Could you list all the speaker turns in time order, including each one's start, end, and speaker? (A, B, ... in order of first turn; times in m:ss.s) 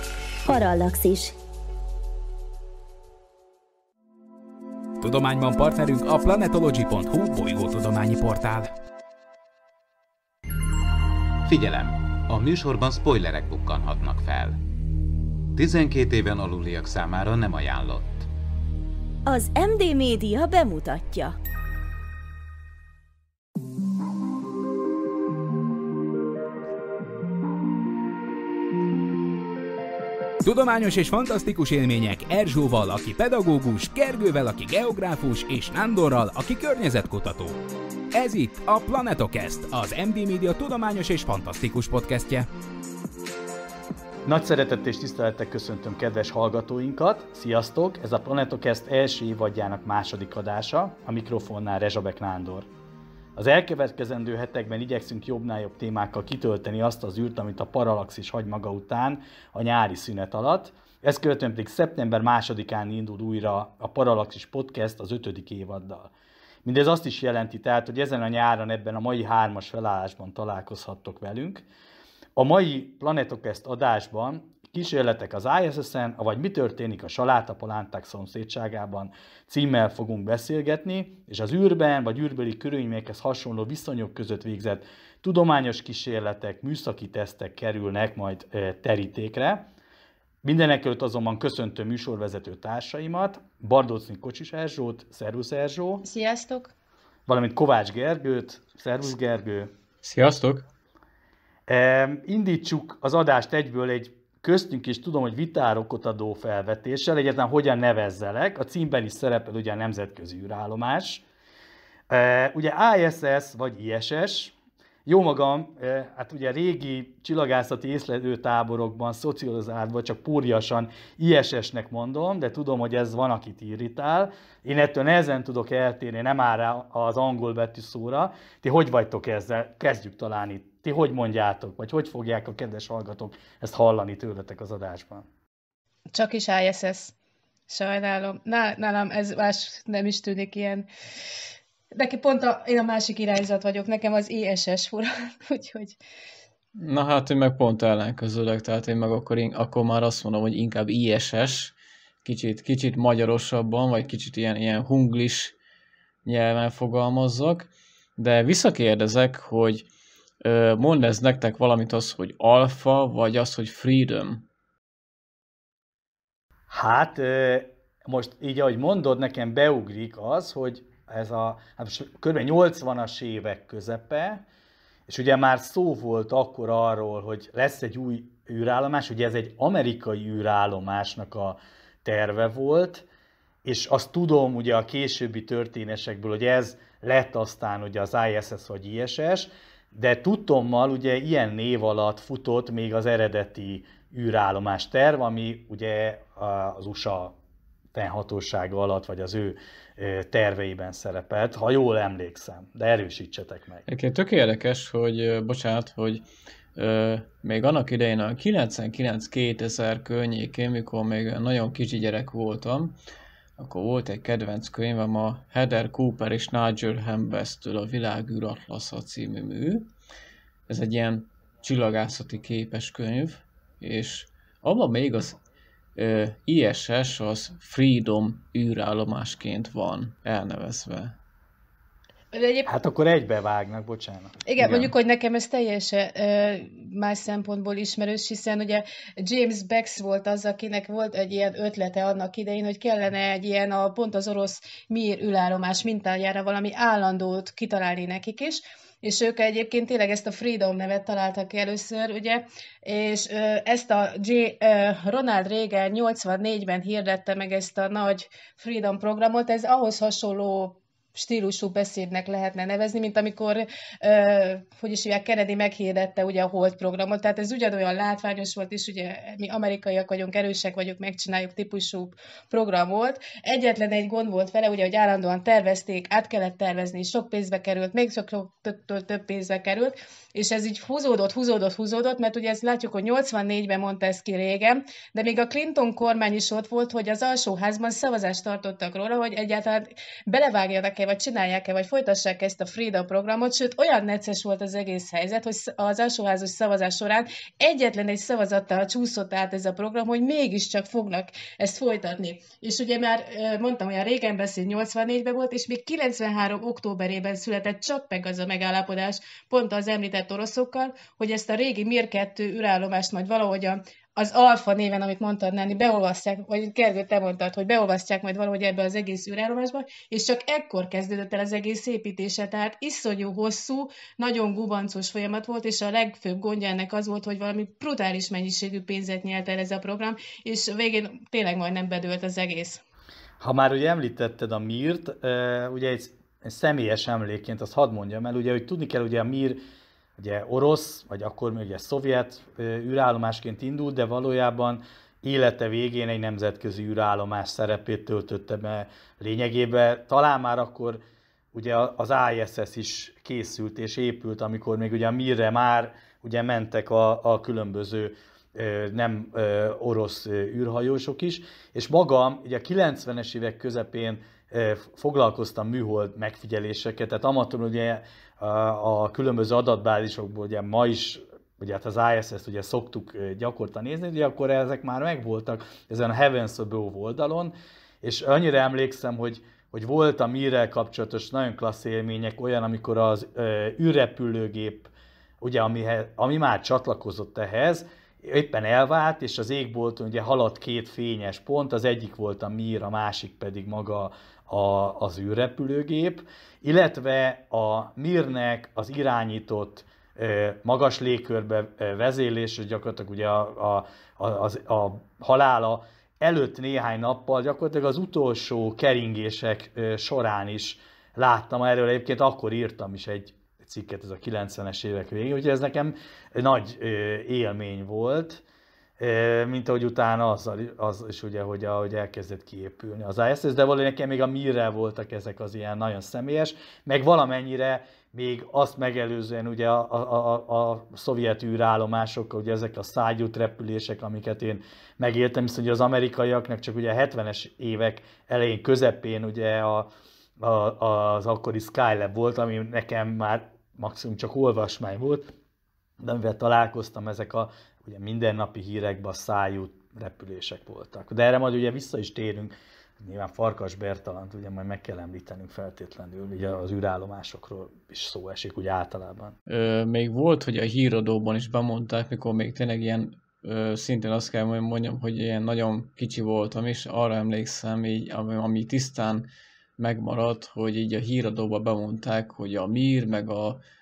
0:00.4-0:01.4 A
0:05.0-0:08.7 B
0:11.4-0:14.6 C
0:15.6-0:18.3 C
0:19.3-0:21.4 A
0:30.4-0:37.6 B
0:38.1-0:42.5 B
0:44.2-0:52.7 D
0:53.4-1:06.1 D
1:06.6-1:11.6 D
1:12.4-1:29.7 D
1:30.4-1:36.0 D
1:36.0-1:36.7 E
1:37.3-1:39.7 D
1:40.0-1:40.6 F
1:41.7-1:51.2 D
1:52.1-1:54.5 D
1:55.1-2:15.3 D
2:16.1-2:17.1 E
2:17.7-2:20.9 E
2:21.9-2:26.0 E
2:26.8-2:35.6 F
2:36.2-2:39.9 F
2:40.4-2:44.4 F
2:46.7-2:54.4 D
2:55.1-3:03.1 D
3:03.6-3:17.4 D
3:17.9-3:23.8 D
3:23.9-3:26.2 F
3:26.8-3:33.0 F
3:33.6-3:39.9 F
3:40.7-3:45.4 F
3:46.0-3:51.2 F
3:52.3-3:52.7 E
3:52.7-3:54.9 D
3:54.5-5:32.8 E
5:33.4-5:39.6 D
5:40.2-6:58.4 D
6:59.0-7:25.3 D
7:26.0-7:39.4 D
7:39.5-7:49.3 F
7:49.8-7:53.6 F